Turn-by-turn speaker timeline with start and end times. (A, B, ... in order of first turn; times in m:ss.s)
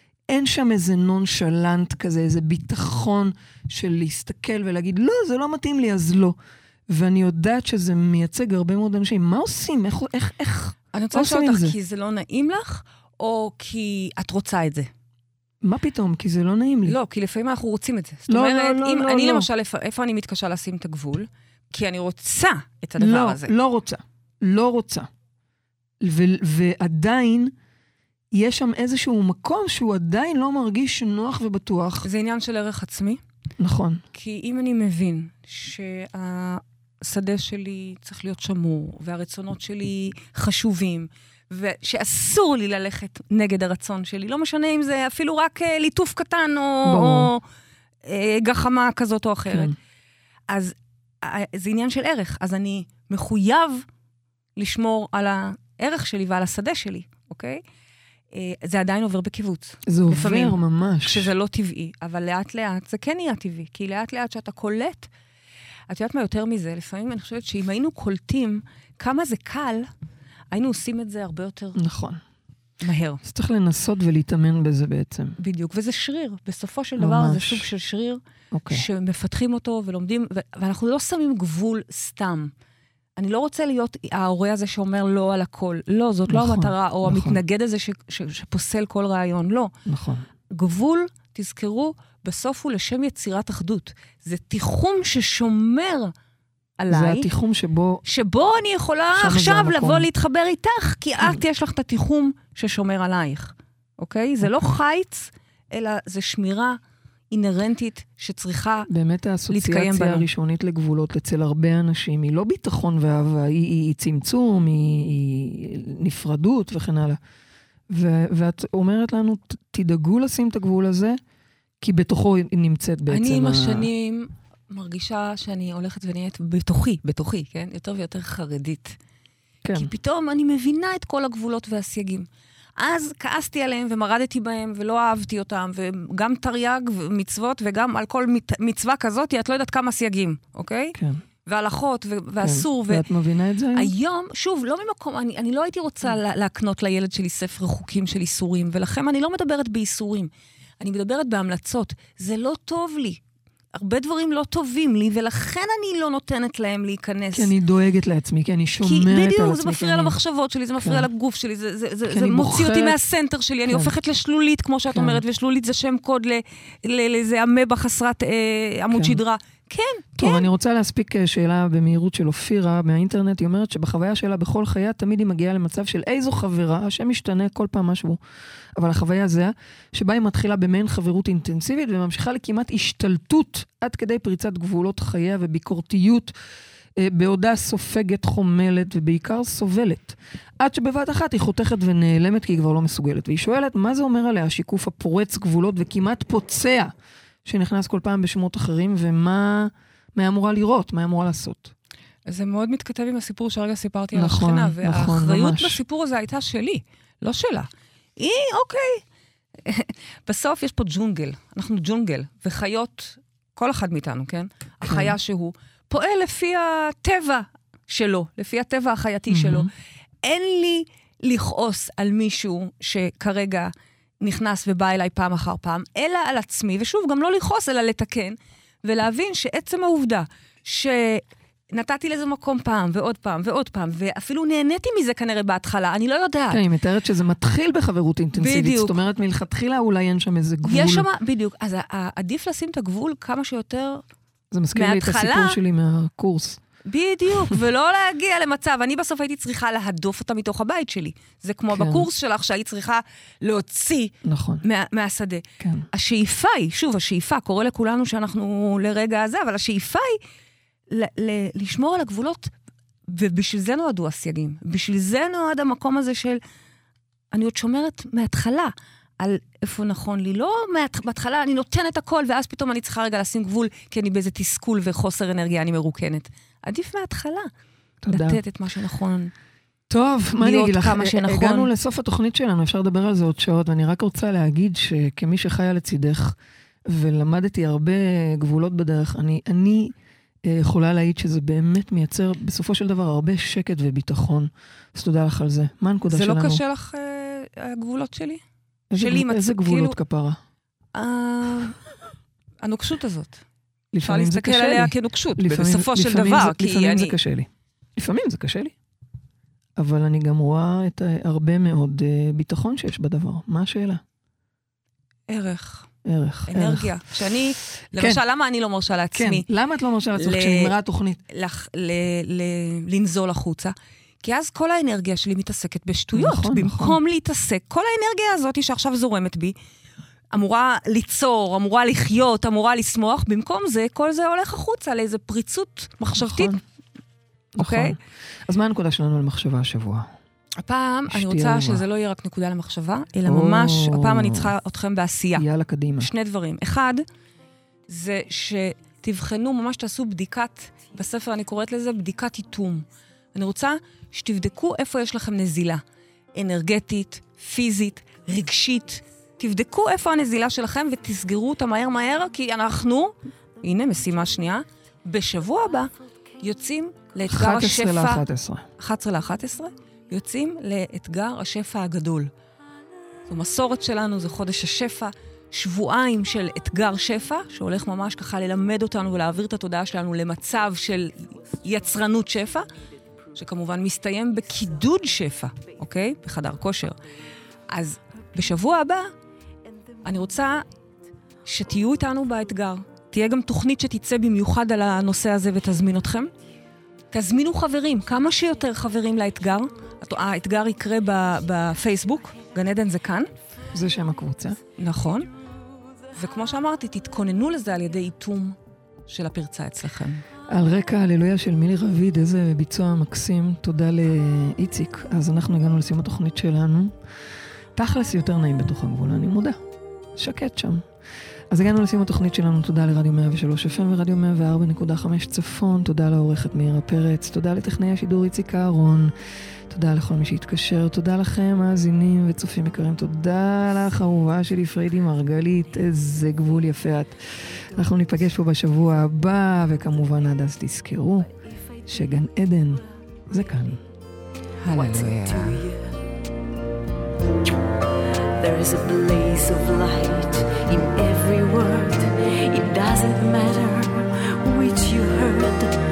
0:00.3-0:06.4 A
0:06.9-0:11.8 A
0:10.9-0:14.9 B
0:15.6-0:17.0 A
0:16.8-0:23.5 B
0:18.3-0:19.5 A
0:23.0-0:25.1 A
0:26.0-0:27.5 A
0:28.3-0:32.1 A
0:32.0-0:33.2 B
0:33.6-0:34.0 A
0:34.1-0:47.4 B
0:46.8-0:47.3 A
0:48.0-0:49.7 B
0:49.5-0:49.7 A
0:50.5-0:53.8 B
0:54.6-0:57.6 B
0:58.3-1:05.1 B
0:59.8-1:01.3 A
1:05.9-1:09.9 B
1:10.5-1:11.8 B
1:11.7-1:12.2 A
1:12.8-1:13.2 B
1:13.2-1:15.4 A
1:15.4-1:22.5 B
1:17.0-1:17.7 A
1:18.5-1:18.8 A
1:23.2-1:29.7 B
1:26.3-1:27.4 A
1:29.8-1:30.2 A
1:30.5-1:36.1 B
1:36.8-1:37.3 B
1:36.9-1:38.0 A
1:38.0-1:46.8 B
1:39.1-1:40.1 A
1:47.3-1:48.9 B
1:48.9-1:57.2 A
1:49.5-1:50.2 B
1:57.9-2:01.2 A
2:01.8-2:03.9 A
2:03.1-2:09.0 B
2:09.6-2:09.9 A
2:09.7-2:23.1 B
2:21.0-2:21.2 A
2:22.4-2:23.9 A
2:23.7-2:33.2 B
2:33.7-2:37.5 B
2:37.3-2:40.1 A
2:38.8-2:50.5 B
2:40.8-2:41.1 A
2:42.1-2:43.0 A
2:43.7-2:43.9 A
2:44.9-2:45.2 A
2:48.9-2:49.2 A
2:50.2-2:58.2 A
2:58.7-3:06.3 A
3:07.0-3:16.9 A
3:17.4-3:21.7 A
3:22.2-3:29.0 B
3:24.1-3:25.8 A
3:29.6-3:39.7 B
3:34.8-3:35.1 A
3:39.3-3:39.7 A
3:40.2-3:56.6 B
3:56.5-4:01.0 A
3:58.4-3:59.0 B
4:00.6-4:04.0 B
4:04.5-4:06.6 A
4:04.7-4:05.6 B
4:06.8-4:20.2 B
4:11.7-4:12.0 A
4:14.2-4:14.6 A
4:15.6-4:15.9 A
4:20.9-4:22.5 B
4:23.1-4:26.4 B
4:27.3-4:37.5 B
4:38.0-4:38.4 A
4:38.1-4:39.3 B
4:39.9-4:46.4 A
4:40.4-4:41.7 B
4:46.9-4:49.9 A
4:50.4-4:56.6 A
4:56.1-4:58.4 B
4:58.9-5:00.4 A
4:58.9-5:00.0 B
5:00.9-5:01.8 B
5:02.6-5:03.4 B
5:03.9-5:08.7 A
5:04.0-5:07.2 B
5:09.8-5:14.0 A
5:15.3-5:15.9 B
5:16.0-5:17.0 A
5:16.5-5:19.4 B
5:18.0-5:18.2 A
5:19.1-5:21.2 A
5:20.2-5:20.7 B
5:21.3-5:29.5 B
5:26.1-5:27.0 A
5:30.3-5:36.6 B
5:36.2-5:36.6 A
5:37.5-5:40.1 A
5:37.6-5:38.0 B
5:40.6-5:45.4 B
5:41.1-5:41.8 A
5:43.2-5:44.5 A
5:45.4-5:46.1 A
5:46.0-5:47.0 B
5:47.9-5:55.8 B
5:56.3-6:08.2 B
6:07.3-6:08.6 A
6:08.8-6:12.3 B
6:13.3-6:22.7 B
6:23.3-6:27.0 B
6:27.7-6:29.1 B
6:30.0-6:30.6 B
6:31.4-6:36.3 B
6:37.1-6:43.3 B
6:43.7-6:44.6 A
6:44.8-6:45.3 B
6:46.1-6:48.6 B
6:49.1-6:50.2 B
6:50.5-6:56.9 A
6:57.7-6:59.6 A
7:00.2-7:00.8 A
7:01.5-7:09.1 A
7:09.7-7:17.2 A
7:17.7-7:21.3 A
7:21.9-7:23.8 A
7:24.6-7:25.6 B
7:24.7-7:26.0 C
7:28.4-7:35.8 C